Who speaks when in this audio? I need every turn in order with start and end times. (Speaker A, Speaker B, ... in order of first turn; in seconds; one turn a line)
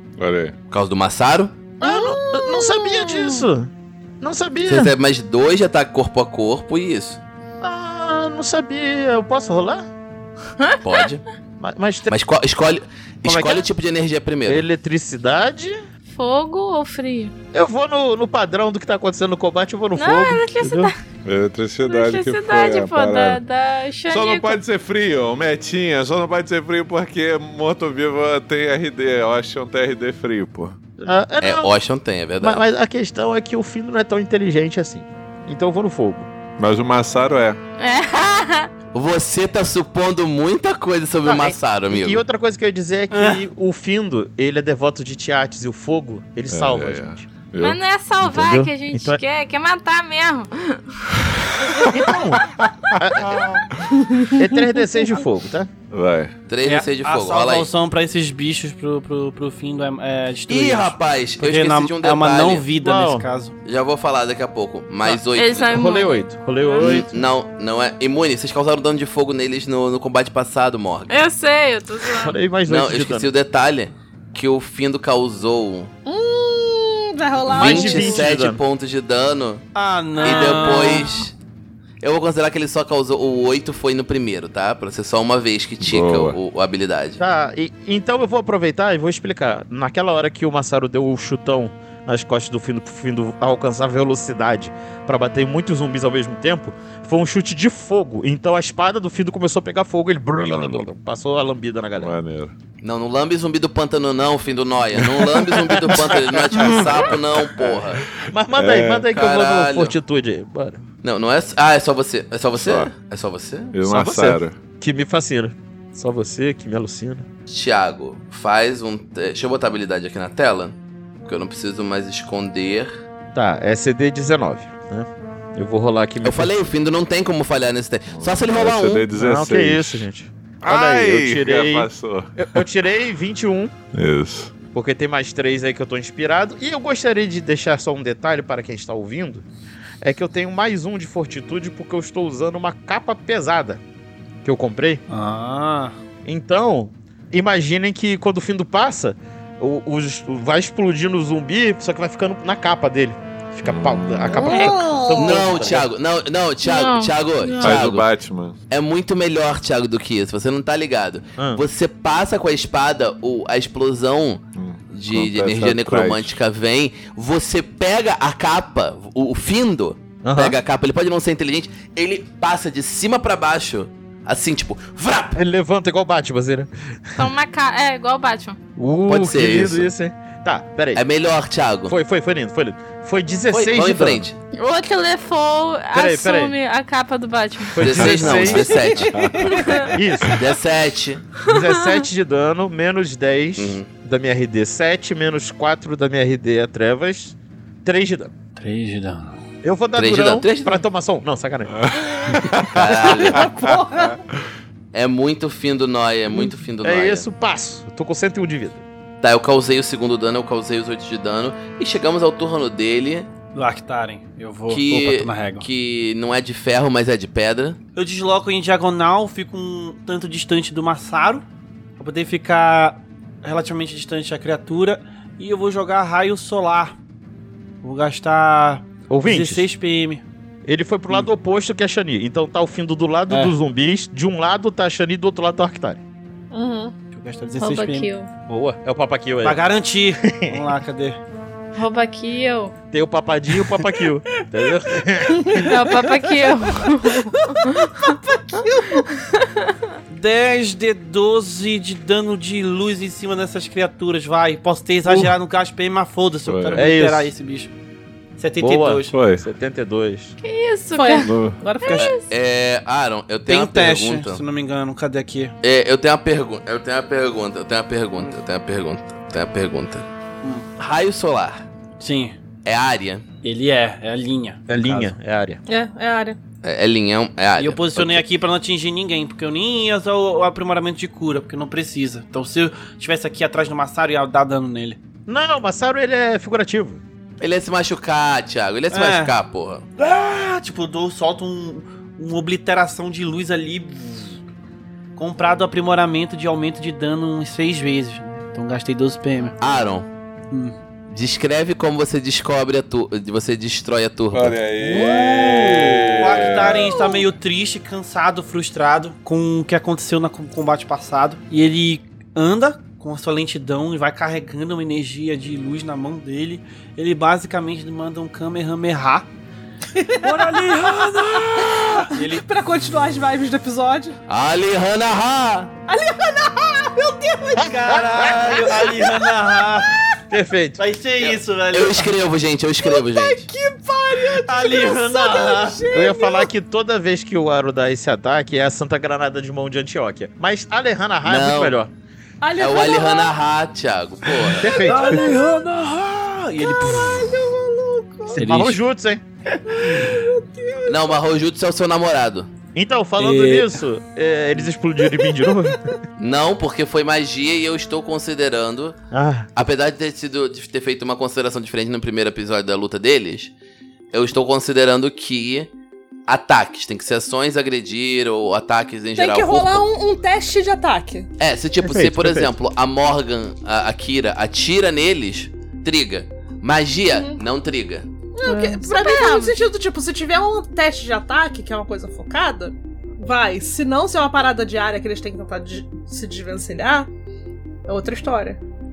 Speaker A: 0.2-0.6
Speaker B: 0.7-1.6
Speaker C: 1.8-4.9
Speaker D: 1.8-3.5
Speaker B: 4.7-7.2
Speaker C: 7.6-9.9
Speaker E: 10.6-11.1
Speaker B: 10.8-11.2
Speaker C: 11.6-12.2
Speaker B: 12.1-14.7
Speaker C: 13.2-13.7
Speaker C: 14.5-15.8
Speaker E: 16.1-17.3
Speaker C: 17.5-20.9
Speaker E: 20.0-21.0
Speaker A: 21.2-23.4
Speaker E: 21.9-24.6
Speaker A: 24.1-30.8
Speaker C: 31.0-31.7
Speaker B: 31.4-32.6
Speaker C: 32.4-36.3
Speaker A: 36.6-37.6
Speaker E: 37.8-38.7
Speaker B: 38.9-42.2
Speaker C: 41.2-47.3
Speaker F: 43.1-43.4
Speaker A: 46.5-47.8
Speaker E: 47.6-51.0
Speaker C: 48.2-49.2
Speaker A: 51.6-53.9
Speaker C: 51.9-53.6
Speaker C: 54.3-55.7
Speaker A: 55.9-56.3
Speaker B: 56.5-57.7
Speaker F: 56.6-63.5
Speaker B: 60.5-62.7
Speaker C: 62.8-63.3
Speaker B: 63.6-65.9
Speaker E: 65.3-66.9
Speaker C: 65.7-67.2
Speaker B: 66.8-71.2
Speaker E: 71.1-72.4
Speaker C: 72.1-73.3
Speaker B: 72.7-75.9
Speaker D: 76.1-78.3
Speaker C: 77.5-78.6
Speaker B: 77.5-79.6
Speaker F: 79.8-81.3
Speaker B: 80.2-81.3
Speaker B: 82.0-87.2
Speaker A: 85.8-86.4
Speaker C: 87.2-102.1
Speaker A: 102.0-102.5
Speaker B: 102.8-108.0
Speaker C: 105.7-107.1
Speaker C: 108.3-110.8
Speaker A: 108.5-109.1
Speaker B: 109.1-110.0
Speaker B: 111.0-113.7
Speaker A: 112.6-112.9
Speaker A: 113.7-114.5
Speaker C: 113.8-117.3
Speaker B: 117.5-123.0
Speaker C: 123.3-126.5
Speaker B: 126.2-129.1
Speaker A: 128.1-130.1
Speaker C: 129.1-133.7
Speaker A: 130.6-132.6
Speaker A: 133.9-134.6
Speaker C: 134.7-139.4
Speaker C: 140.0-143.8
Speaker C: 144.4-145.0
Speaker F: 145.1-145.9
Speaker C: 146.2-155.9
Speaker A: 153.7-154.7
Speaker D: 154.4-155.6
Speaker B: 155.1-158.1
Speaker E: 156.6-157.7
Speaker A: 157.6-158.6
Speaker B: 158.7-175.4
Speaker C: 161.4-161.6
Speaker A: 164.6-166.4
Speaker C: 170.2-170.6
Speaker C: 175.3-177.3
Speaker E: 177.2-178.6
Speaker C: 178.8-181.0
Speaker B: 179.1-179.9
Speaker B: 180.9-181.9
Speaker C: 181.9-184.3
Speaker B: 183.5-184.4
Speaker E: 184.5-187.8
Speaker C: 185.9-186.6
Speaker C: 187.7-188.9
Speaker B: 187.8-189.3
Speaker A: 187.9-189.7
Speaker D: 188.5-189.9
Speaker E: 189.5-189.9
Speaker C: 189.8-190.5
Speaker B: 190.3-191.3
Speaker C: 191.4-198.3
Speaker E: 191.5-191.9
Speaker B: 193.6-193.9
Speaker F: 198.6-199.4
Speaker C: 199.6-203.4
Speaker B: 200.0-200.8
Speaker A: 201.8-202.9
Speaker B: 202.6-203.5
Speaker D: 203.3-204.2
Speaker A: 203.4-204.4
Speaker B: 204.9-207.3
Speaker C: 206.8-208.8
Speaker B: 209.2-213.3
Speaker F: 213.6-215.7
Speaker B: 214.7-217.8
Speaker F: 218.0-221.4
Speaker F: 222.0-227.0
Speaker F: 227.8-230.2
Speaker C: 229.1-229.7
Speaker C: 230.7-236.0
Speaker F: 233.3-233.6
Speaker D: 236.5-236.9
Speaker F: 237.1-238.1
Speaker E: 237.6-238.3
Speaker C: 238.5-239.6
Speaker F: 239.4-241.2
Speaker C: 240.2-240.7
Speaker E: 241.8-242.7
Speaker C: 242.9-245.8
Speaker D: 245.4-246.7
Speaker E: 245.6-248.1
Speaker D: 247.5-249.1
Speaker E: 249.3-249.7
Speaker F: 250.1-257.7
Speaker C: 255.1-255.3
Speaker A: 256.5-256.9
Speaker C: 256.7-257.3
Speaker F: 258.4-259.2
Speaker C: 258.6-260.3
Speaker A: 259.1-259.4
Speaker E: 260.4-262.2
Speaker D: 260.9-262.1
Speaker A: 261.2-261.6
Speaker B: 261.9-264.4
Speaker F: 263.5-265.5
Speaker B: 265.6-270.1
Speaker B: 270.8-271.7
Speaker F: 272.0-272.4
Speaker B: 272.6-273.2
Speaker F: 273.4-275.1
Speaker C: 274.7-275.6
Speaker D: 275.7-276.4
Speaker B: 276.6-278.2
Speaker F: 277.6-285.0
Speaker C: 285.3-287.0
Speaker B: 287.4-289.9
Speaker F: 288.9-289.3
Speaker F: 290.0-294.4
Speaker F: 295.2-299.6
Speaker B: 299.6-300.1
Speaker B: 301.1-304.6
Speaker A: 304.3-307.1
Speaker F: 304.8-319.3
Speaker D: 319.9-321.1
Speaker F: 320.2-322.4
Speaker D: 321.6-324.2
Speaker B: 324.3-325.7
Speaker D: 325.9-330.0
Speaker F: 327.6-330.0
Speaker C: 330.3-330.8
Speaker F: 330.8-332.1
Speaker B: 331.7-333.5
Speaker D: 332.8-336.5
Speaker F: 334.3-335.9
Speaker C: 335.9-341.9
Speaker B: 341.2-341.8
Speaker D: 342.4-343.4
Speaker B: 342.6-344.9
Speaker C: 344.6-345.4
Speaker F: 344.7-347.4
Speaker D: 346.6-348.5
Speaker C: 348.3-349.2
Speaker F: 348.4-348.8
Speaker D: 349.7-351.0
Speaker B: 350.9-352.5
Speaker C: 352.7-355.9
Speaker F: 353.2-353.8
Speaker B: 356.2-359.0
Speaker C: 359.1-359.5
Speaker B: 359.6-363.5
Speaker B: 364.1-365.7
Speaker B: 366.3-369.9
Speaker D: 369.2-371.3
Speaker B: 371.4-378.1
Speaker C: 371.8-372.5
Speaker D: 378.4-387.1
Speaker E: 378.4-379.6
Speaker D: 387.9-388.6